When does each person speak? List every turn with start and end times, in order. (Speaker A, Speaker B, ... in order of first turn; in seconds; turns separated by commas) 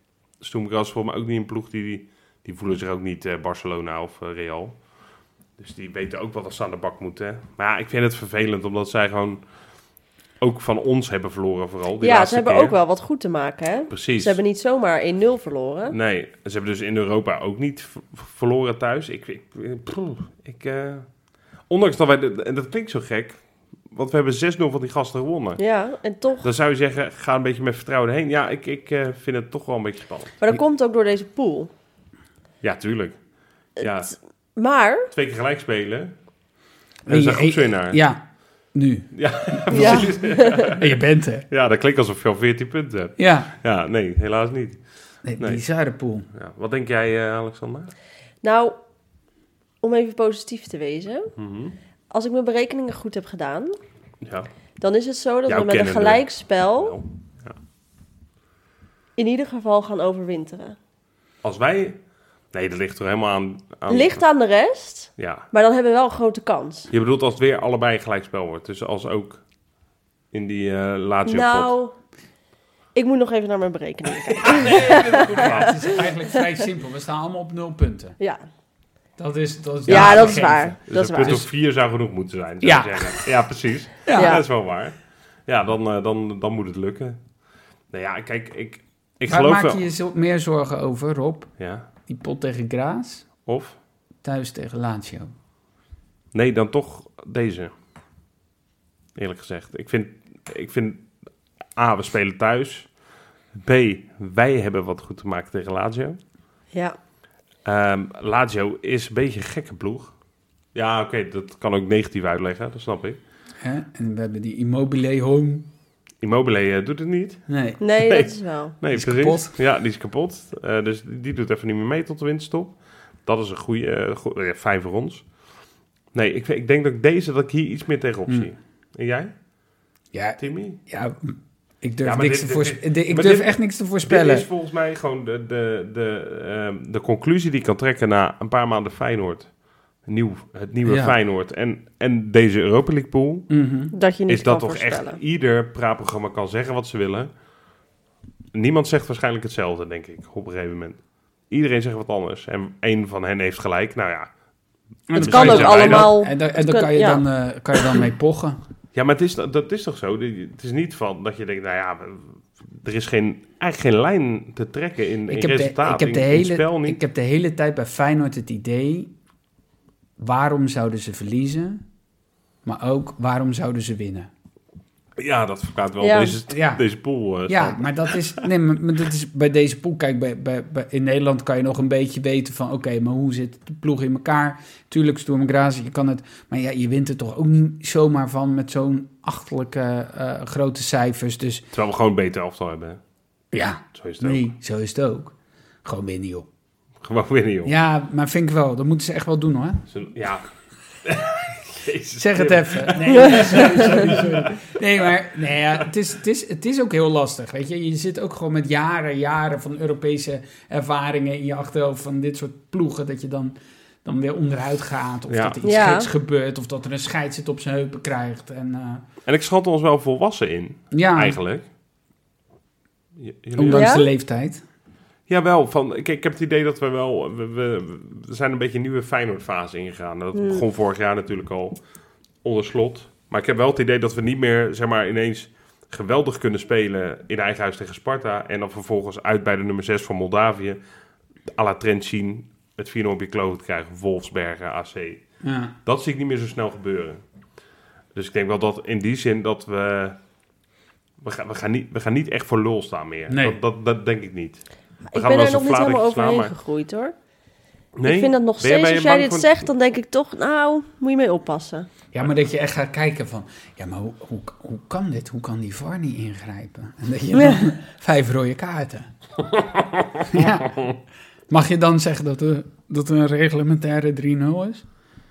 Speaker A: 0.4-4.8, Speaker A: 5.6-9.4, Speaker A: 10.4-12.8, Speaker B: 12.0-15.9, Speaker A: 13.9-14.4, Speaker A: 15.9-21.1, Speaker A: 21.7-25.6, Speaker B: 25.6-26.5, Speaker A: 26.4-30.4, Speaker B: 30.4-31.7, Speaker A: 32.6-33.2, Speaker A: 33.8-34.1, Speaker B: 34.6-35.1, Speaker A: 35.1-36.1, Speaker C: 37.1-38.2, Speaker A: 37.1-38.0, Speaker C: 38.7-41.5, Speaker A: 39.1-41.0, Speaker B: 39.7-40.7, Speaker A: 41.5-44.8, Speaker C: 43.2-43.5, Speaker C: 45.2-46.3, Speaker A: 46.3-47.9, Speaker B: 48.4-48.8, Speaker B: 49.8-51.3, Speaker A: 51.4-51.8, Speaker B: 52.1-53.8, Speaker A: 54.2-54.5, Speaker B: 54.8-57.0, Speaker A: 55.5-57.5, Speaker B: 59.2-60.8, Speaker A: 61.4-62.0, Speaker A: 62.5-64.2, Speaker B: 63.9-66.9, Speaker A: 65.2-65.5, Speaker A: 66.9-69.4, Speaker A: 70.3-71.7, Speaker B: 71.2-72.0, Speaker B: 73.0-76.3, Speaker C: 74.4-78.2, Speaker A: 74.4-75.9, Speaker C: 79.2-81.5, Speaker B: 79.9-81.4, Speaker A: 79.9-84.9, Speaker C: 82.6-83.3, Speaker C: 84.0-84.4, Speaker B: 84.1-84.4, Speaker A: 85.5-87.2, Speaker A: 87.9-89.8, Speaker C: 89.3-91.5, Speaker A: 91.6-91.9, Speaker C: 92.1-93.3, Speaker A: 93.5-93.8, Speaker C: 94.2-95.3, Speaker A: 96.3-97.7, Speaker A: 99.2-101.1, Speaker A: 101.8-102.9, Speaker A: 103.6-106.2, Speaker A: 107.7-110.1, Speaker A: 110.7-113.2, Speaker C: 113.6-115.7, Speaker A: 116.2-117.4, Speaker C: 117.5-117.8, Speaker B: 117.8-118.7, Speaker A: 118.0-125.3, Speaker C: 118.9-119.5, Speaker A: 126.1-129.3, Speaker C: 130.1-134.5, Speaker A: 130.4-130.8, Speaker A: 132.0-139.5, Speaker A: 140.0-143.5, Speaker C: 140.9-141.1, Speaker C: 143.5-143.9, Speaker B: 143.9-145.2, Speaker A: 144.3-147.3, Speaker A: 148.5-154.3, Speaker C: 155.1-158.6, Speaker A: 155.1-156.2, Speaker B: 155.2-157.2, Speaker A: 158.9-167.0, Speaker C: 165.3-169.1, Speaker C: 170.2-171.8, Speaker C: 172.7-174.3, Speaker A: 175.2-178.4, Speaker B: 176.0-176.4, Speaker C: 176.5-176.8, Speaker C: 177.5-191.7, Speaker A: 191.7-193.0, Speaker C: 193.5-196.5, Speaker A: 193.9-194.4, Speaker A: 197.0-197.8, Speaker C: 197.7-199.8, Speaker A: 199.9-200.5, Speaker A: 201.0-204.7, Speaker C: 202.2-219.1, Speaker A: 215.3-215.6, Speaker B: 215.6-216.1, Speaker A: 219.2-221.6, Speaker C: 220.9-221.4, Speaker A: 223.2-223.9, Speaker C: 223.6-224.6, Speaker B: 223.7-224.1, Speaker A: 225.3-231.8, Speaker B: 230.3-230.6, Speaker A: 232.4-240.8, Speaker A: 241.5-245.2, Speaker C: 245.4-245.8, Speaker A: 245.9-247.2, Speaker A: 248.2-250.2, Speaker A: 251.2-254.6, Speaker C: 253.3-253.6, Speaker B: 255.1-257.1, Speaker A: 255.1-256.5, Speaker A: 258.0-259.6, Speaker B: 258.1-261.9, Speaker C: 262.1-269.1, Speaker B: 267.4-267.6, Speaker A: 269.5-270.9, Speaker C: 270.3-270.8, Speaker C: 271.5-274.9